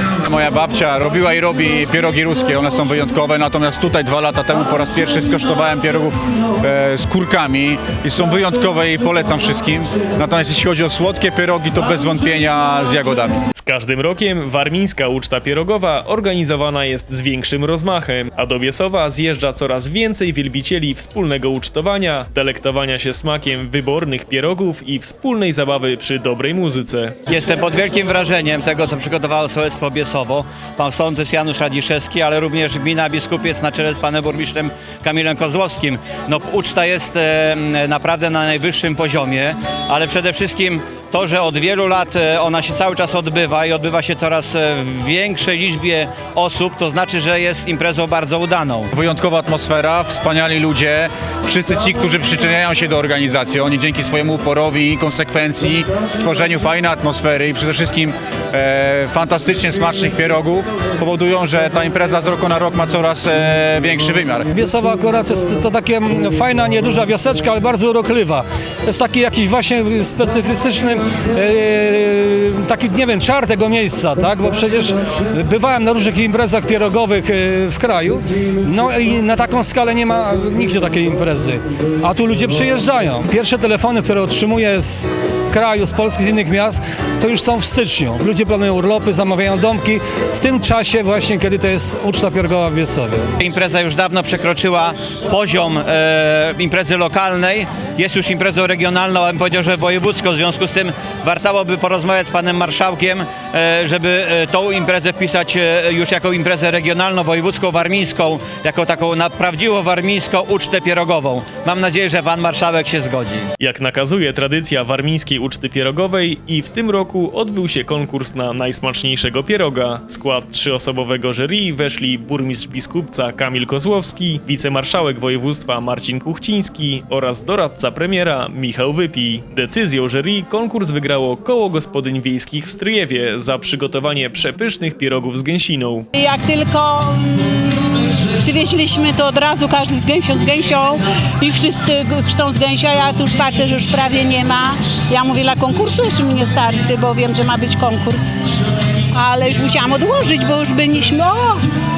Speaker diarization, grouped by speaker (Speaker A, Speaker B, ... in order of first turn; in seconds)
Speaker A: 0.2-13.4, 48.9-64.5
Speaker B: 13.6-27.2, 113.6-136.1
Speaker C: 27.3-48.9, 93.4-113.5
Speaker D: 64.5-93.3
Speaker E: 136.2-137.7, 138.4-148.3, 149.1-151.6